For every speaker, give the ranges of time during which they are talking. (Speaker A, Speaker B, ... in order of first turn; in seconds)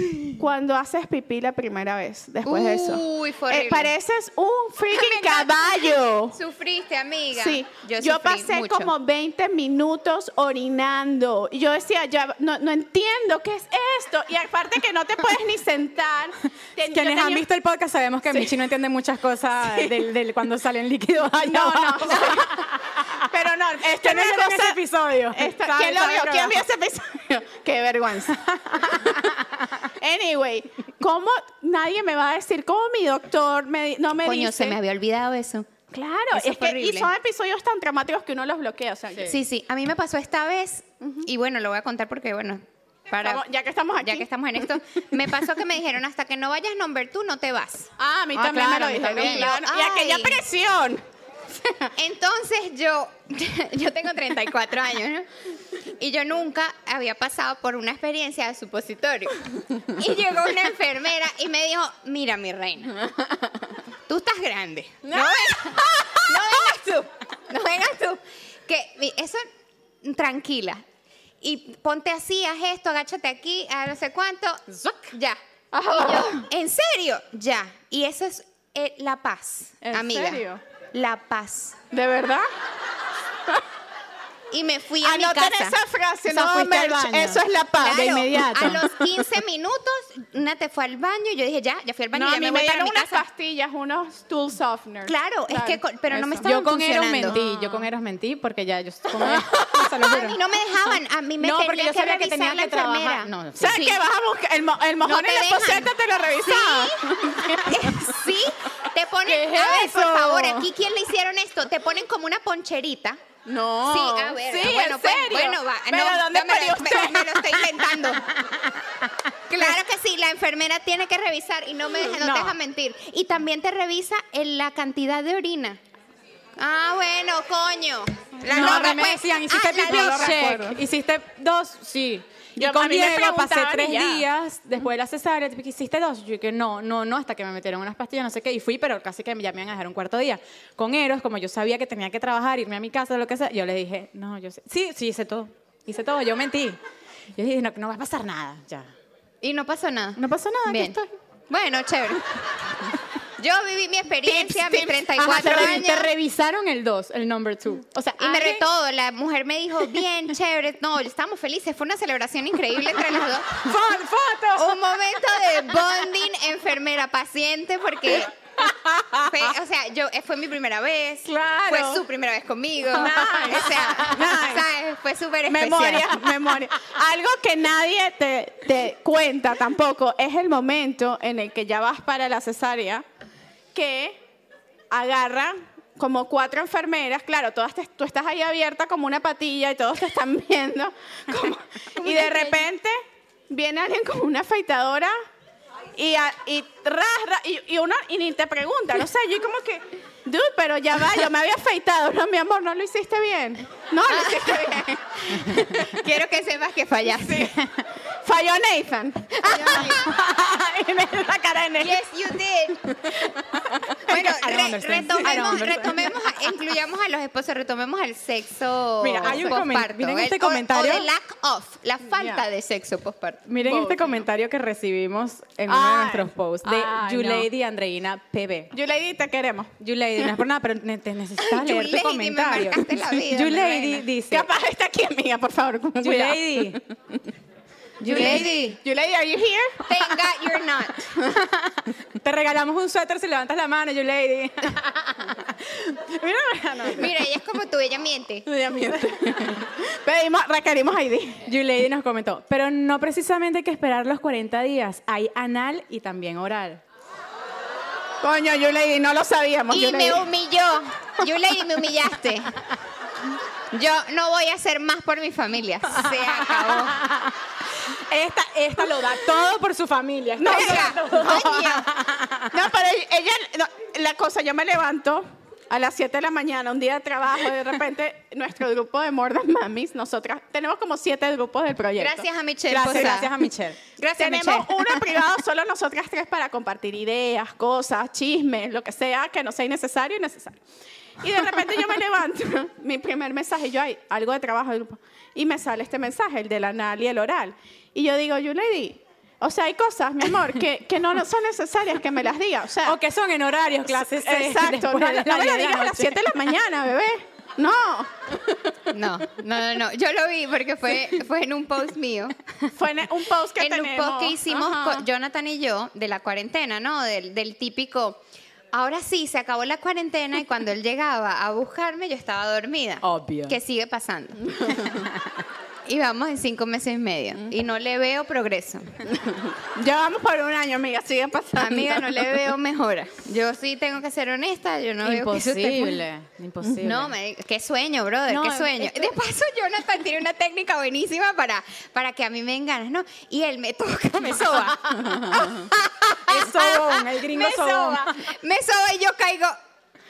Speaker A: 0.3-6.4, 7.3-17.5, 19.6-20.0, 21.4-22.7, 23.2-24.8, 25.3-29.1, 30.0-34.8, 35.9-39.4, 41.0-41.3, 43.2-44.7, 48.0-51.9, 65.2-66.8, 75.7-76.4, 79.8-80.6, 81.9-82.5, 85.0-88.8, 92.1-96.4, 97.3-97.7, 99.2-99.5, 103.6-108.2, 109.2-110.7, 113.5-118.2, 128.5-129.1, 129.8-130.8, 132.6-134.3, 154.2-155.8, 171.2-172.0, 172.9-174.4, 175.5-183.1, 183.7-184.2, 184.9-193.0, 193.5-195.1, 195.9-205.9, 208.2-210.0, 215.2-215.9, 219.2-219.6, 222.2-222.4, 223.7-224.2, 225.7-227.5, 228.7-230.3, 234.3-237.2, 238.1-240.0, 248.5-251.4, 258.2-260.2, 270.4-271.0, 272.5-282.3, 282.8-283.2, 284.2-290.6, 291.2-303.0, 303.9-308.4, 312.8-315.1, 324.5-324.9, 329.1-332.5, 345.2-345.5
Speaker B: 2.4-3.9, 4.9-8.9, 34.2-35.7, 36.3-37.1, 39.2-43.4, 44.0-47.9, 48.8-50.4, 52.0-55.3, 56.0-63.0, 64.1-69.5, 70.0-70.8, 71.4-75.4, 75.9-80.4, 80.9-81.8, 84.5-85.8, 87.8-93.2, 95.1-97.4, 100.0-104.0, 105.0-105.9, 106.4-113.2, 113.9-118.2, 119.5-125.8, 126.6-130.5, 149.4-151.0, 151.5-152.4, 153.4-156.1, 158.2-163.7, 164.6-168.3, 169.2-176.2, 192.0-192.6, 204.2-204.5, 205.5-207.5, 209.4-210.1, 211.8-212.8, 214.1-223.5, 231.4-234.1, 238.0-238.8, 239.9-241.0, 246.9-248.5, 259.7-262.5, 263.7-267.0, 270.4-271.9, 282.0-283.3, 284.0-285.0, 308.9-312.4, 313.6-318.2, 318.7-324.5, 325.9-328.9, 331.6-336.0, 336.8-349.6
Speaker C: 16.9-22.9, 24.0-26.6, 28.7-29.3, 48.4-49.5, 74.7-75.1, 86.3-88.8, 96.4-100.4, 101.4-103.8, 122.2-122.5, 128.5-146.8, 147.4-148.9, 150.2-151.1, 155.2-158.7, 163.6-164.7, 173.0-174.6, 209.6-211.8, 214.1-216.1, 219.0-221.1, 223.5-228.7, 229.8-234.5, 236.0-236.8, 238.1-238.5, 241.3-247.1, 251.5-256.8, 266.0-267.4, 268.1-272.5, 282.7-283.8, 302.9-306.2, 323.0-323.6, 335.0-337.1, 338.3-339.1, 344.3-345.5, 346.2-348.1